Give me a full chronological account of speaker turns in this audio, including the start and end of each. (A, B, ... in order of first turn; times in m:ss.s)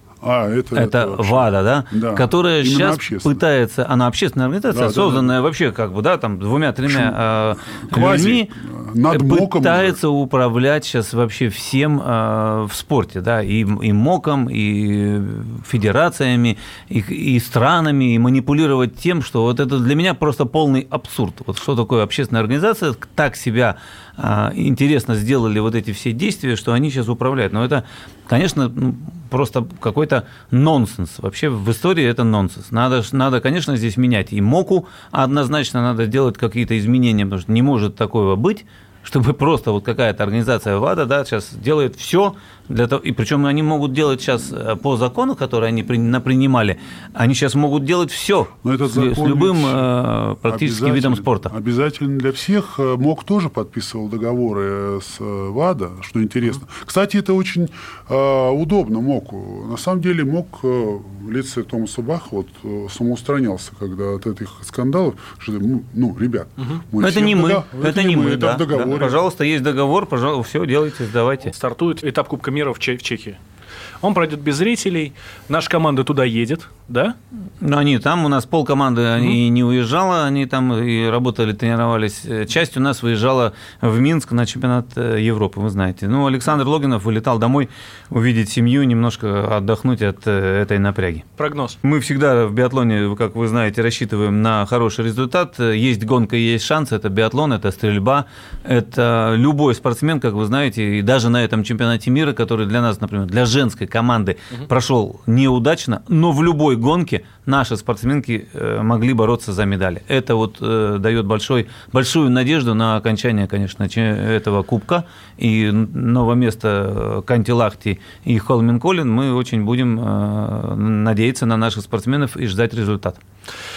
0:00.2-0:03.4 A
0:00.7-0:08.5 B
0:04.7-0:05.3 A
0:06.8-0:10.0 A
0:09.1-0:51.5 B
0:48.6-0:49.8 A
0:50.4-1:09.2 A
1:07.0-1:11.5 B
1:11.4-1:13.4 C
1:14.0-1:17.2 C
1:17.6-1:31.2 B
1:31.4-1:31.8 C
1:31.8-2:03.2 B